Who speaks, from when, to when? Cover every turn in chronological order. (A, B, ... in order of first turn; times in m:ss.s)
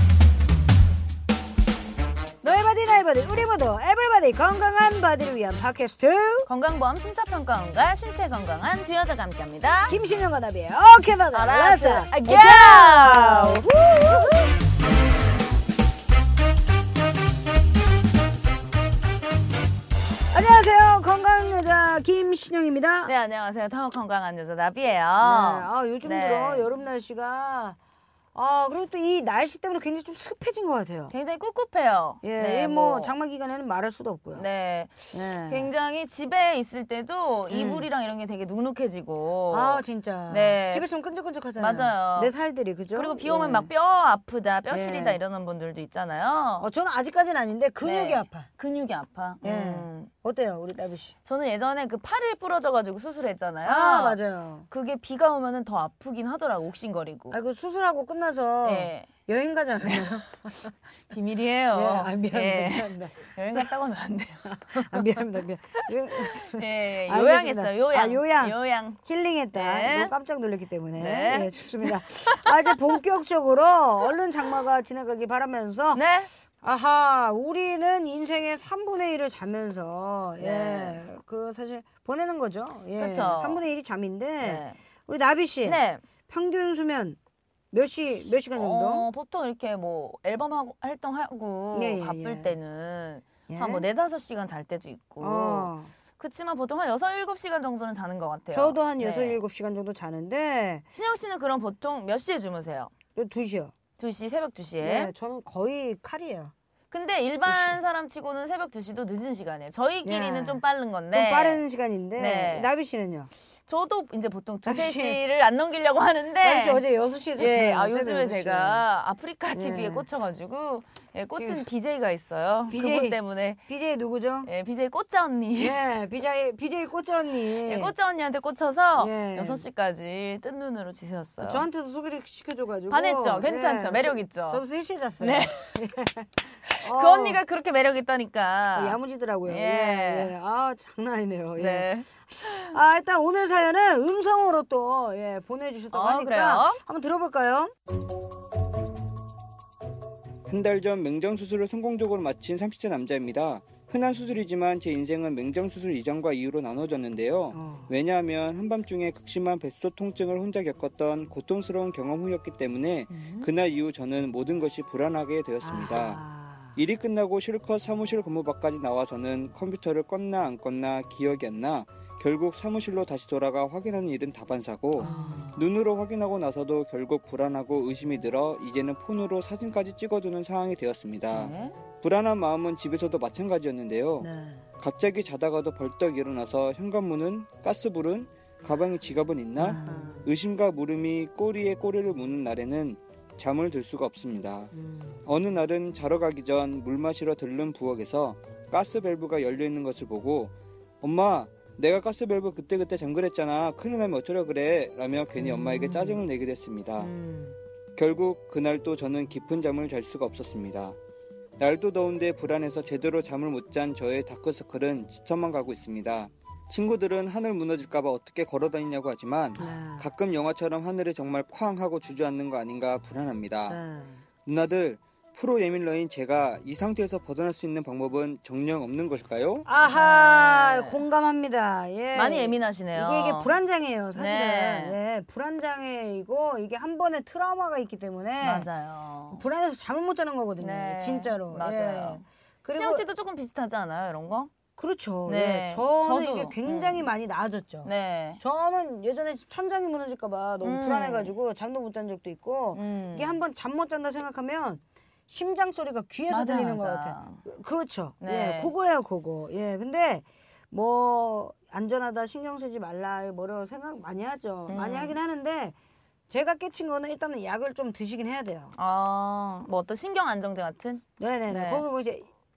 0:02.4-0:06.5 A
0:06.4-0:10.0 B
0:09.9-0:14.4 A
0:11.3-0:14.4 B
0:20.3-0:23.1 A
0:23.0-0:26.7 B
0:25.2-0:27.8 A
0:28.3-0:31.1 A
0:31.1-0:33.1 B
0:32.2-0:34.4 A
0:34.3-0:40.9 B
0:35.1-0:35.7 A
0:37.5-0:37.9 A
0:39.5-0:43.7 A
0:41.6-0:42.3 B
0:42.9-0:46.7 B
0:44.7-0:45.2 A
0:46.6-0:48.5 A
0:47.8-0:50.1 B
0:49.4-0:51.1 A
0:51.2-0:57.4 B
0:53.6-0:54.7 A
0:57.3-1:00.7 A
0:58.6-0:59.1 B
0:59.8-1:00.2 B
1:01.1-1:05.3 B
1:01.7-1:03.7 A
1:04.4-1:16.0 A
1:06.2-1:09.0 B
1:09.5-1:10.1 B
1:11.0-1:12.7 B
1:15.9-1:16.3 B
1:16.6-1:27.2 A
1:20.4-1:21.0 B
1:22.9-1:23.6 B
1:24.4-1:24.8 B
1:25.6-1:26.0 B
1:27.7-1:29.1 A
1:28.5-1:39.4 B
1:31.7-1:32.6 A
1:33.5-1:33.8 A
1:35.2-1:35.9 A
1:38.5-1:40.9 A
1:40.9-1:42.9 B
1:43.1-1:43.7 A
1:44.0-1:45.1 B
1:44.8-1:46.5 A
1:46.9-1:51.6 B
1:47.4-1:47.8 A
1:50.0-1:53.3 A
1:52.2-1:52.7 B
1:53.6-1:56.8 B
1:54.6-1:55.2 A
1:56.4-1:58.8 A
1:57.4-2:03.6 B
1:59.5-2:00.1 A
2:01.4-2:01.6 A
2:02.7-2:04.5 A
2:04.4-2:05.8 B
2:05.6-2:07.9 A
2:07.4-2:11.6 B
2:09.0-2:09.6 A
2:11.4-2:17.4 A
2:12.9-2:14.6 B
2:15.2-2:15.7 B
2:16.6-2:20.3 B
2:18.7-2:27.7 A
2:21.6-2:22.7 B
2:25.9-2:26.8 B
2:30.5-2:46.2 C
2:37.5-2:37.9 A
2:43.1-2:43.5 B
2:45.6-2:46.8 A
2:46.7-3:04.3 C
2:55.0-2:55.4 B
2:55.0-2:55.6 A
3:01.3-3:01.8 B
3:04.2-3:04.6 A
3:04.8-3:14.7 C
3:09.6-3:10.3 A
3:14.7-3:15.2 A
3:15.2-3:27.1 C
3:25.4-3:26.2 A
3:27.0-3:27.6 A
3:28.0-3:31.0 C
3:31.6-3:43.8 C
3:39.6-3:40.1 A
3:43.7-3:44.2 A
3:44.4-3:49.6 C
3:49.6-3:58.7 A
3:49.9-3:51.0 B
3:52.1-3:53.5 B
3:54.1-3:55.0 B
3:58.4-3:59.4 B
3:59.3-4:03.0 A
4:00.6-4:04.5 B
4:04.8-4:25.7 A
4:05.2-4:07.1 B
4:07.8-4:08.4 B
4:10.6-4:11.3 B
4:12.7-4:13.4 B
4:16.3-4:17.4 B
4:18.2-4:18.7 B
4:24.7-4:25.2 B
4:26.3-4:28.7 A
4:28.8-4:31.8 B
4:31.2-4:32.3 A